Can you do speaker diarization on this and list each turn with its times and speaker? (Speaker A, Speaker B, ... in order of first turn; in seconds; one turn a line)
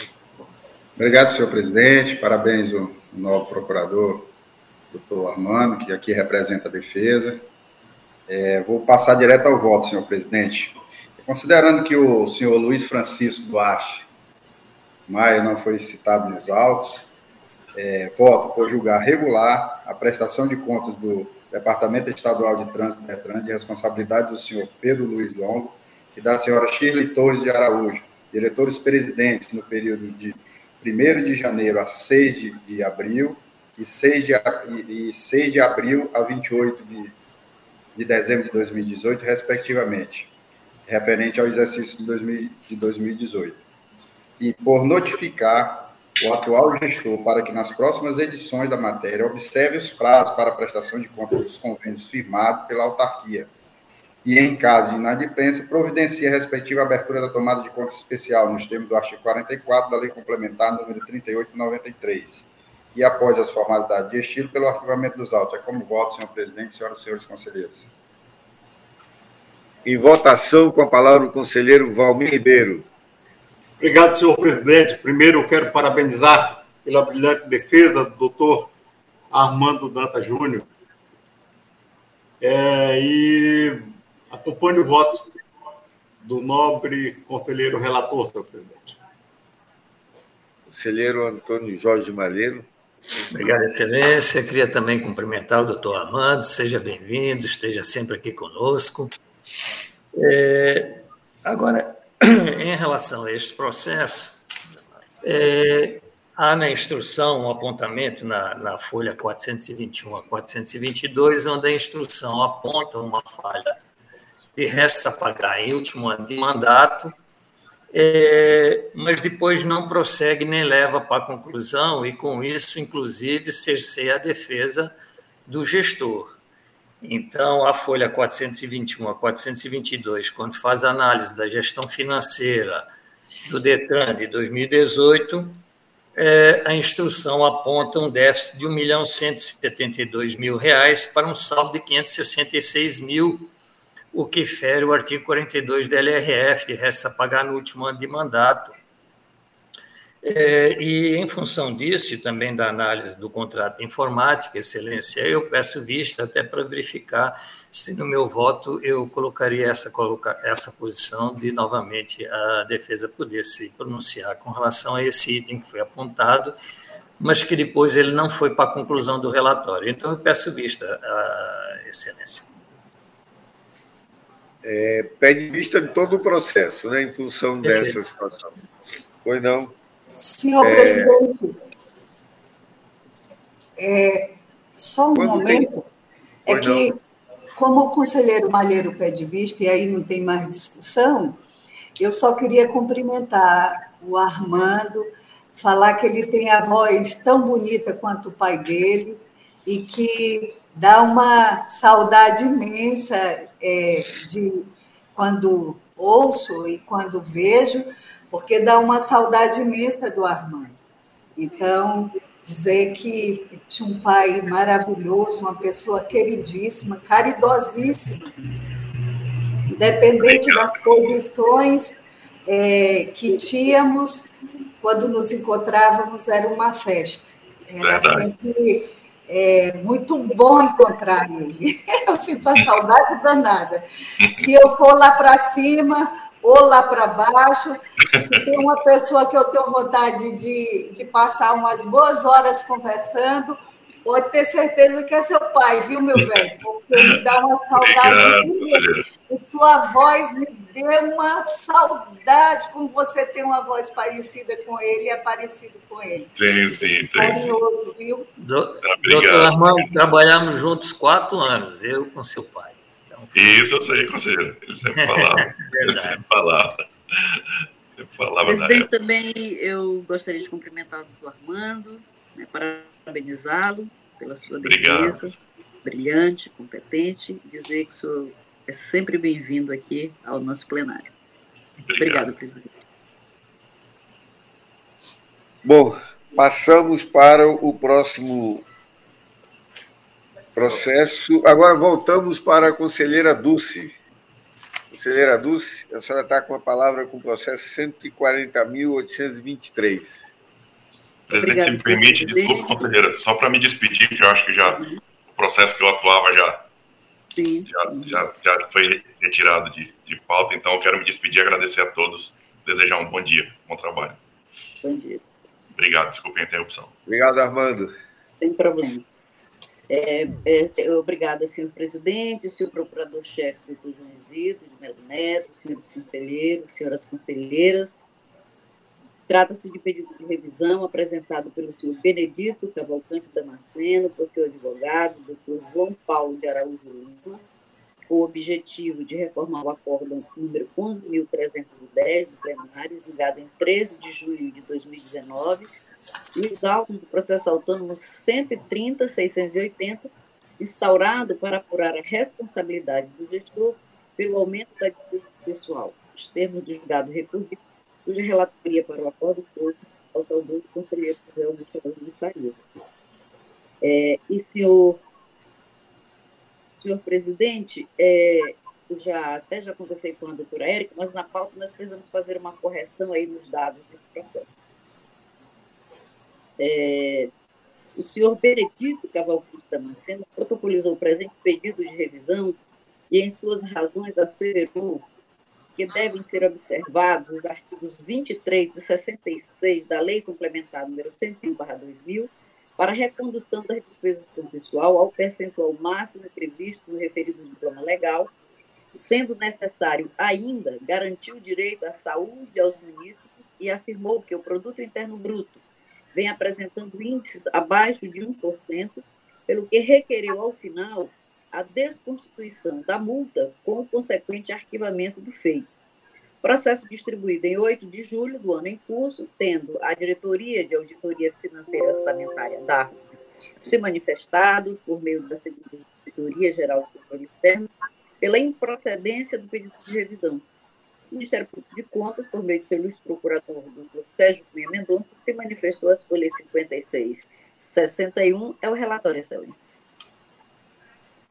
Speaker A: 0.9-4.3
Speaker A: 4.9-7.4
Speaker A: 8.3-14.1
Speaker A: 15.1-17.1
Speaker A: 17.7-37.1
Speaker A: 37.9-40.3
Speaker A: 40.9-43.6
Speaker A: 44.4-53.5
Speaker A: 54.2-67.9
Speaker B: 69.8-72.8
Speaker C: 73.8-78.7
Speaker C: 79.3-80.7
Speaker C: 82.4-85.3
Speaker C: 86.2-89.0
Speaker B: 90.7-92.7
Speaker D: 93.3-99.1
Speaker D: 100.1-104.4
Speaker D: 105.2-113.8
Speaker D: 114.5-117.1
Speaker D: 117.9-124.9
Speaker D: 125.5-126.4
Speaker D: 127.0-132.9
Speaker D: 133.4-135.6
Speaker D: 136.2-143.5
Speaker D: 144.1-148.8
Speaker D: 150.2-166.5
Speaker D: 167.2-172.5
Speaker B: 174.6-178.6
Speaker D: 177.6-177.9
Speaker B: 179.2-179.7
Speaker E: 180.1-181.5
Speaker B: 180.6-181.2
Speaker E: 183.8-185.8
Speaker B: 185.1-185.7
Speaker E: 186.4-187.0
Speaker B: 186.5-186.9
Speaker E: 187.6-191.4
Speaker E: 192.0-210.8
Speaker E: 211.4-218.3
Speaker E: 219.7-258.3
Speaker F: 220.2-220.8
Speaker F: 227.8-228.3
Speaker F: 234.2-234.5
Speaker F: 238.1-238.6
Speaker F: 246.9-247.2
Speaker F: 247.7-249.1
Speaker F: 256.4-257.5
Speaker D: 258.4-263.6
Speaker F: 258.8-260.0
Speaker F: 263.3-268.9
Speaker D: 264.9-266.2
Speaker G: 268.4-281.1
Speaker F: 274.6-275.3
Speaker F: 281.8-282.3
Speaker G: 282.0-282.7
Speaker B: 285.6-288.6
Speaker B: 290.5-293.9
Speaker B: 294.9-300.3
Speaker F: 301.3-306.6
Speaker G: 301.3-302.7
Speaker G: 304.7-305.0
Speaker G: 307.4-308.2
Speaker F: 307.7-314.2
Speaker G: 314.8-315.3
Speaker F: 315.7-316.9
Speaker B: 317.1-317.9
Speaker G: 318.4-319.0
Speaker G: 319.9-328.0
Speaker G: 329.3-337.4
Speaker G: 338.1-345.7
Speaker G: 346.3-362.6
Speaker G: 363.8-365.0
Speaker G: 366.8-374.4
Speaker G: 376.6-377.3
Speaker G: 377.9-382.6
Speaker G: 383.1-385.0
Speaker G: 385.8-398.3
Speaker G: 398.9-405.6
Speaker G: 406.1-415.7
Speaker G: 416.4-422.9
Speaker G: 423.6-427.7
Speaker G: 428.2-430.4
Speaker G: 431.1-439.8